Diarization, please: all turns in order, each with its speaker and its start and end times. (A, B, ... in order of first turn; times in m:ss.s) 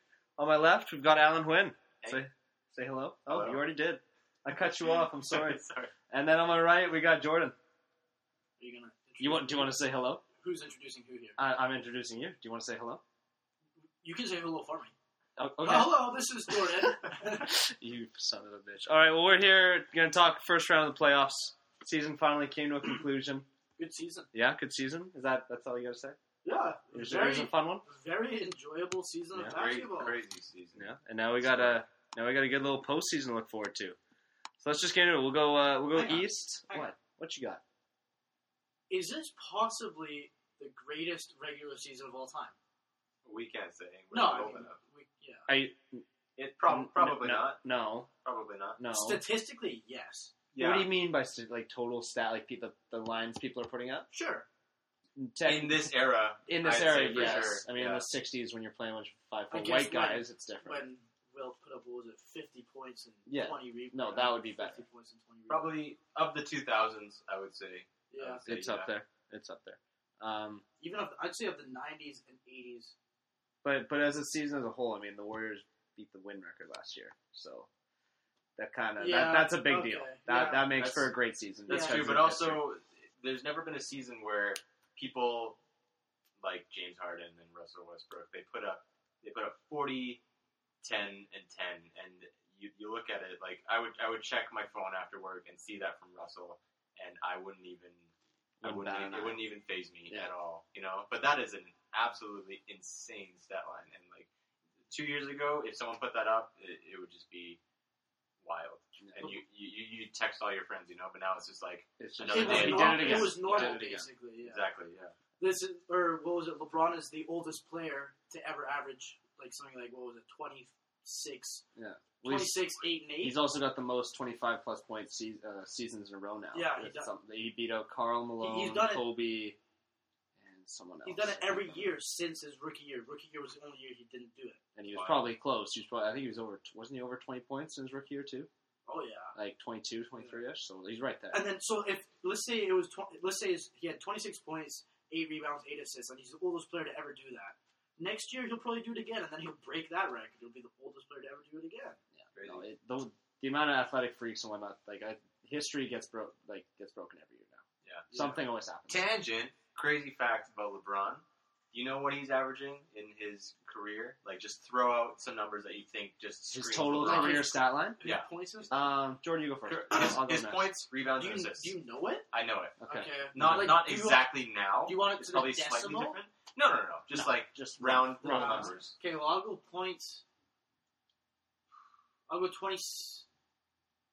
0:00.4-0:07.6 A
0:03.3-0:03.6 B
0:04.9-0:05.9 B
0:08.6-0:09.8 C
0:09.2-0:10.2 A
0:10.4-0:11.4 C
0:11.4-0:13.0 A
0:14.0-0:14.9 C
0:15.4-0:23.5 A
0:15.6-0:17.6 C
0:23.8-0:24.3 C
0:24.3-0:26.2 A
0:26.4-0:30.2 C
0:26.9-0:27.8 A
0:29.3-0:29.6 A
0:29.5-0:30.9 B
0:30.8-0:34.0 A
0:31.4-0:31.8 B
0:34.6-0:37.6 A
0:35.9-0:36.9 C
0:38.9-0:42.6 C
0:43.2-0:44.8 B
0:44.1-0:45.5 C
0:45.5-0:46.1 A
0:46.4-0:47.6 B
0:46.7-0:48.1 A
0:48.2-0:48.8 B
0:48.8-0:49.2 A
0:48.9-0:50.3 C
0:50.5-0:50.9 B
0:50.6-0:54.1 A
0:54.1-0:54.5 C
0:55.2-0:55.9 A
0:55.4-0:58.0 B
0:56.5-1:00.8 A
0:57.2-0:57.5 C
0:59.5-1:05.8 C
1:03.3-1:04.8 A
1:05.5-1:08.9 B
1:08.1-1:08.5 C
1:08.4-1:10.6 A
1:10.8-1:13.0 C
1:13.6-1:17.7 A
1:18.6-1:22.6 A
1:19.0-1:20.8 C
1:20.7-1:21.1 B
1:21.7-1:25.6 B
1:21.7-1:22.2 C
1:26.4-1:30.2 B
1:30.8-1:38.1 B
1:38.6-1:39.4 A
1:38.6-1:44.3 B
1:44.9-1:47.6 B
1:48.4-1:53.8 B
1:49.0-1:49.3 A
1:52.0-1:54.1 A
1:52.3-1:54.6 C
1:54.4-1:55.1 B
1:55.4-2:01.6 C
2:01.8-2:09.6 A
2:02.2-2:03.4 C
2:06.5-2:07.1 C
2:08.4-2:09.1 C
2:10.4-2:11.9 A
2:11.0-2:14.6 C
2:14.8-2:18.5 A
2:14.9-2:15.3 B
2:18.9-2:19.4 C
2:19.4-2:21.5 A
2:21.3-2:32.0 C
2:32.2-2:39.1 A
2:32.3-2:32.7 B
2:37.8-2:38.3 B
2:38.9-2:47.5 B
2:46.5-2:48.0 A
2:47.0-2:48.8 C
2:48.7-2:50.7 A
2:49.7-2:51.8 B
2:51.2-2:52.3 C
2:52.3-2:52.8 B
2:52.8-2:53.8 A
2:52.8-2:54.3 C
2:53.3-2:58.9 B
2:54.8-2:56.2 C
2:57.1-2:58.8 A
2:58.3-3:00.2 C
3:02.3-3:03.3 C